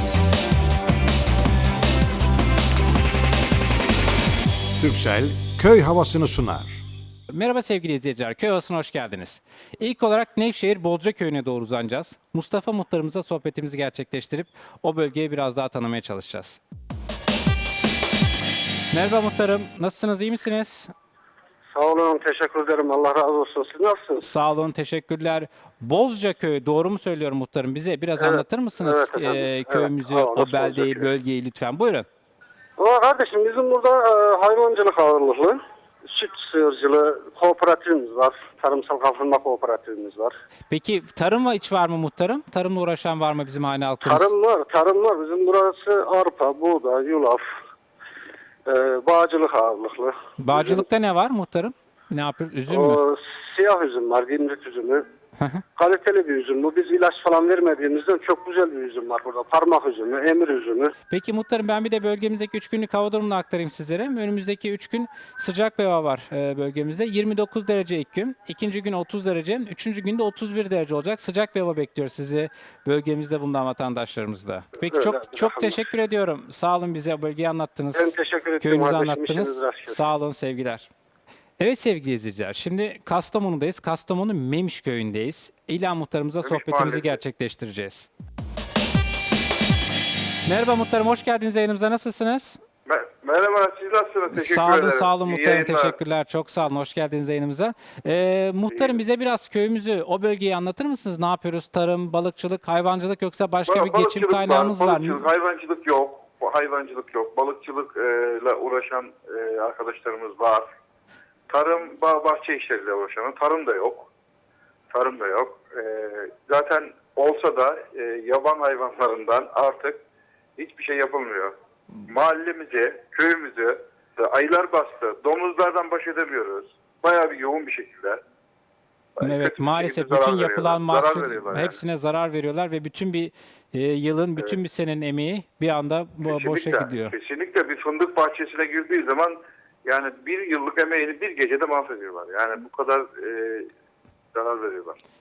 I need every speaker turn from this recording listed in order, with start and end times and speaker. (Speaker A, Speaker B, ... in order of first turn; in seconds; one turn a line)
Speaker A: 4.8-6.8
Speaker B: 7.3-16.6
Speaker B: 18.9-20.9
Speaker C: 21.7-24.3
Speaker B: 24.2-32.1
Speaker C: 28.2-31.1
Speaker C: 32.8-40.3
Speaker B: 40.7-44.3
Speaker C: 44.0-47.4
Speaker C: 48.7-50.8
Speaker B: 50.4-53.0
Speaker C: 52.7-55.0
Speaker C: 55.8-60.9
Speaker B: 61.1-80.9
Speaker C: 74.9-75.8
Speaker C: 77.9-80.0
Speaker B: 81.6-88.1
Speaker D: 86.4-87.2
Speaker B: 90.5-92.6
Speaker D: 92.9-96.0
Speaker B: 94.3-105.3
Speaker D: 103.7-110.7
Speaker D: 111.5-114.1
Speaker D: 114.9-120.0
Speaker D: 120.6-121.5
Speaker D: 122.1-128.2
Speaker D: 129.2-131.8
Speaker B: 129.2-137.1
Speaker D: 136.2-139.3
Speaker D: 139.9-143.7
Speaker D: 144.3-145.0